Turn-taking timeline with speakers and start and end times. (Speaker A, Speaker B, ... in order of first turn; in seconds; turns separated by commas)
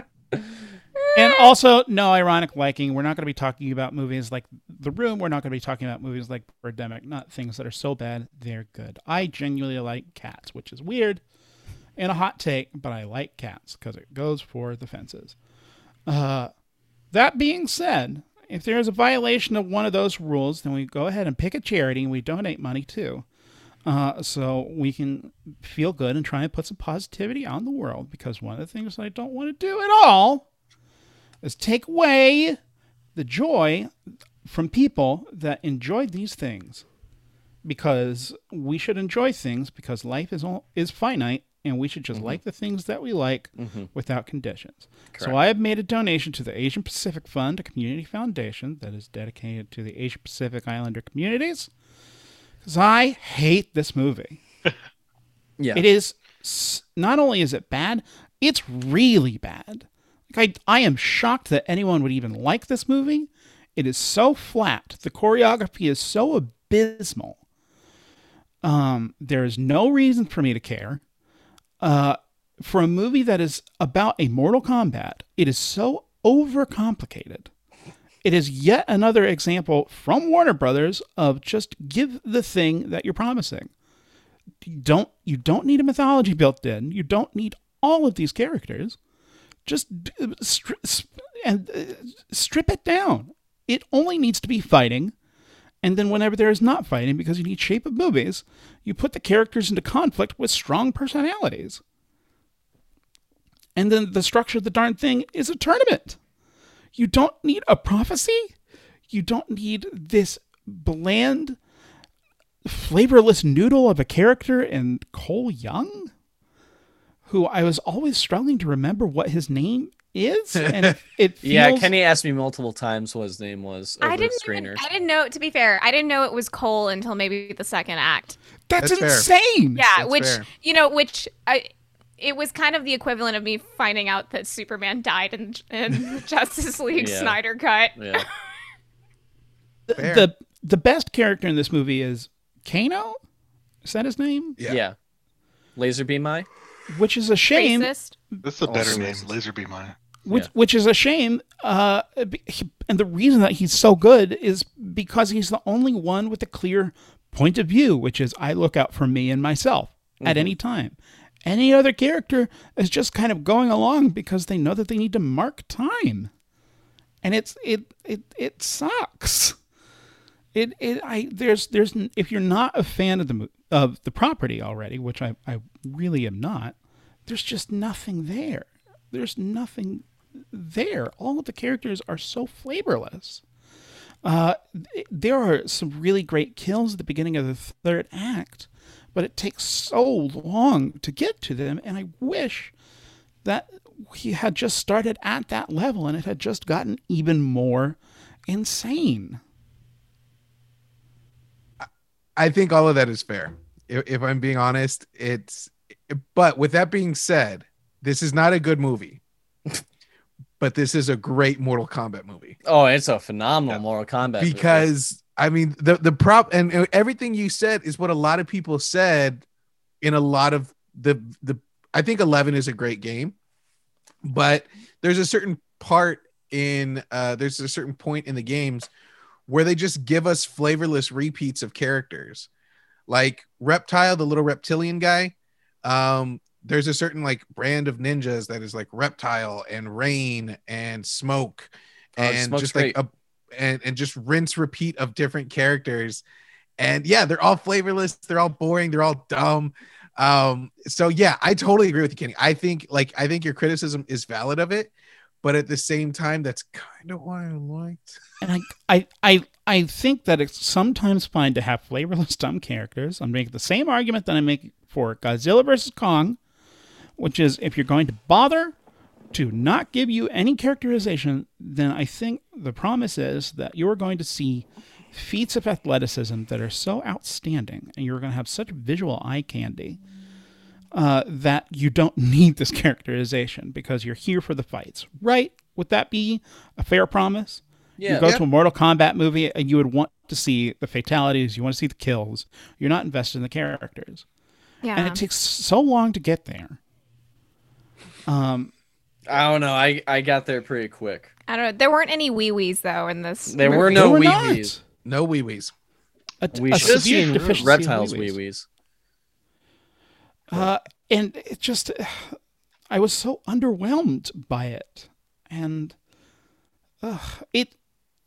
Speaker A: 1.0-1.5, Speaker B: 1.2-11.2, Speaker B: 12.0-15.3, Speaker B: 16.1-16.5, Speaker B: 17.1-23.2, Speaker B: 23.9-30.4, Speaker B: 31.4-32.6, Speaker B: 33.2-33.9, Speaker B: 34.4-36.8, Speaker B: 37.6-51.7, Speaker C: 42.1-42.4, Speaker C: 43.6-43.9, Speaker B: 52.6-54.4, Speaker C: 55.6-55.9, Speaker B: 55.7-67.4, Speaker B: 68.6-71.0, Speaker B: 71.8-77.5, Speaker B: 78.2-83.7, Speaker B: 84.6-89.0, Speaker B: 89.7-95.1, Speaker B: 95.8-101.8, Speaker B: 103.8-106.2, Speaker B: 107.0-108.5, Speaker B: 109.1-111.6, Speaker B: 112.7-116.1, Speaker B: 117.3-121.9, Speaker D: 120.6-121.0, Speaker C: 121.4-124.8, Speaker A: 124.0-128.4, Speaker B: 128.7-129.8, Speaker D: 128.8-129.3, Speaker A: 129.8-138.2, Speaker D: 129.9-130.5, Speaker C: 136.9-137.4, Speaker C: 138.0-138.3, Speaker B: 139.9-143.2, Speaker D: 139.9-140.3, Speaker B: 143.8-144.6, Speaker C: 144.7-144.9, Speaker C: 145.8-146.5, Speaker B: 146.9-147.9, Speaker A: 147.5-148.2, Speaker E: 148.4-149.9, Speaker C: 148.7-149.3, Speaker B: 150.2-166.3, Speaker C: 160.2-160.5, Speaker B: 167.2-169.6, Speaker B: 170.5-176.8, Speaker B: 177.3-183.4, Speaker B: 184.2-192.7, Speaker B: 193.4-198.0, Speaker B: 198.5-199.4, Speaker D: 202.4-209.2, Speaker D: 210.6-212.6, Speaker C: 212.7-214.9, Speaker D: 214.4-219.4, Speaker D: 220.0-223.3, Speaker D: 224.2-228.9, Speaker D: 229.5-232.5, Speaker D: 233.1-246.2, Speaker C: 242.2-243.0, Speaker D: 246.8-254.9, Speaker D: 255.4-258.2, Speaker B: 258.4-266.4, Speaker B: 267.2-268.8, Speaker B: 269.3-280.0, Speaker B: 280.9-294.2, Speaker C: 288.0-288.3, Speaker A: 294.8-295.2, Speaker B: 295.0-296.8, Speaker B: 298.3-298.7, Speaker C: 299.3-301.3, Speaker A: 301.5-304.1, Speaker C: 303.5-304.7, Speaker B: 303.6-304.8, Speaker D: 305.1-305.7, Speaker B: 306.4-308.4, Speaker C: 306.5-308.6, Speaker E: 306.8-307.7, Speaker B: 310.5-312.4, Speaker B: 312.9-315.9, Speaker B: 317.0-317.7